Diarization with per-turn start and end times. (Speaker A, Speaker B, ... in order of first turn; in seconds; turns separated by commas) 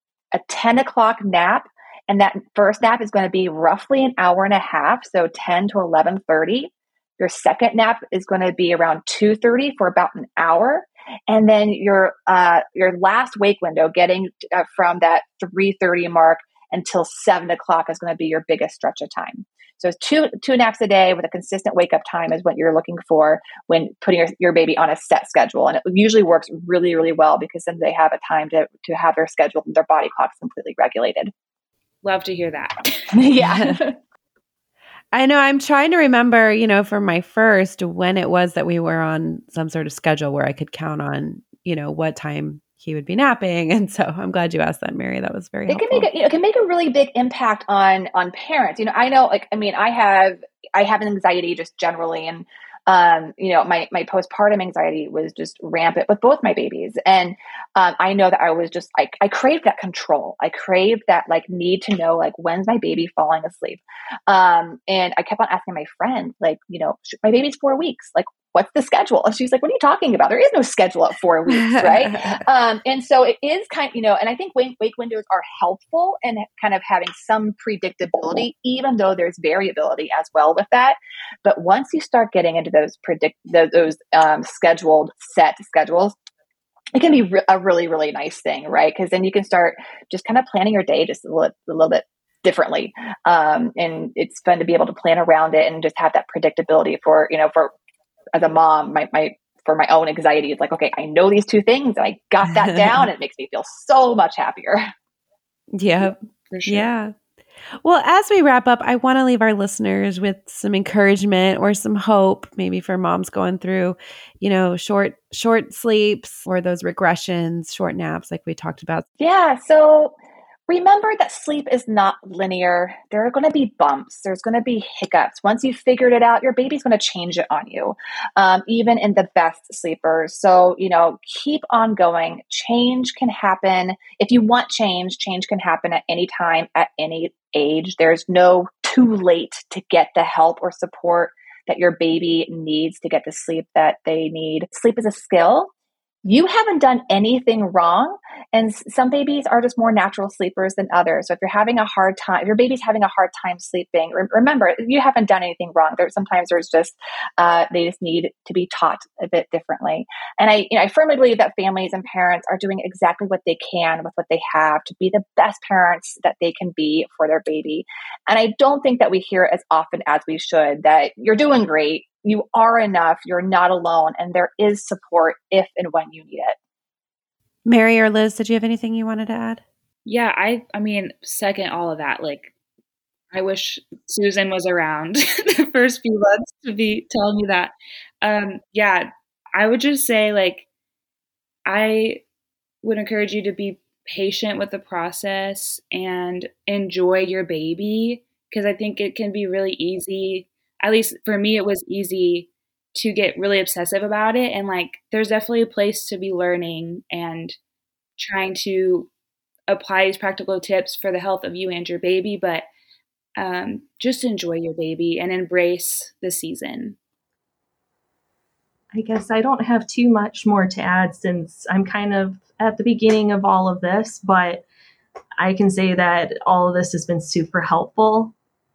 Speaker A: 0.3-31.3, Speaker B: 32.0-33.9, Speaker A: 33.1-33.8, Speaker C: 35.1-46.1, Speaker A: 45.7-86.1, Speaker C: 71.5-72.4, Speaker A: 86.9-97.7, Speaker A: 98.3-104.9, Speaker C: 102.6-103.0, Speaker C: 105.7-107.1, Speaker B: 106.5-106.9, Speaker C: 107.8-119.0, Speaker A: 119.2-120.1, Speaker A: 120.7-145.7, Speaker A: 146.2-176.6, Speaker C: 177.7-179.6, Speaker B: 180.0-182.5, Speaker B: 183.3-190.7, Speaker B: 191.7-192.2, Speaker B: 192.8-207.6, Speaker B: 208.2-209.1, Speaker B: 209.7-212.7, Speaker B: 213.3-217.0, Speaker D: 218.9-224.6, Speaker D: 225.4-228.3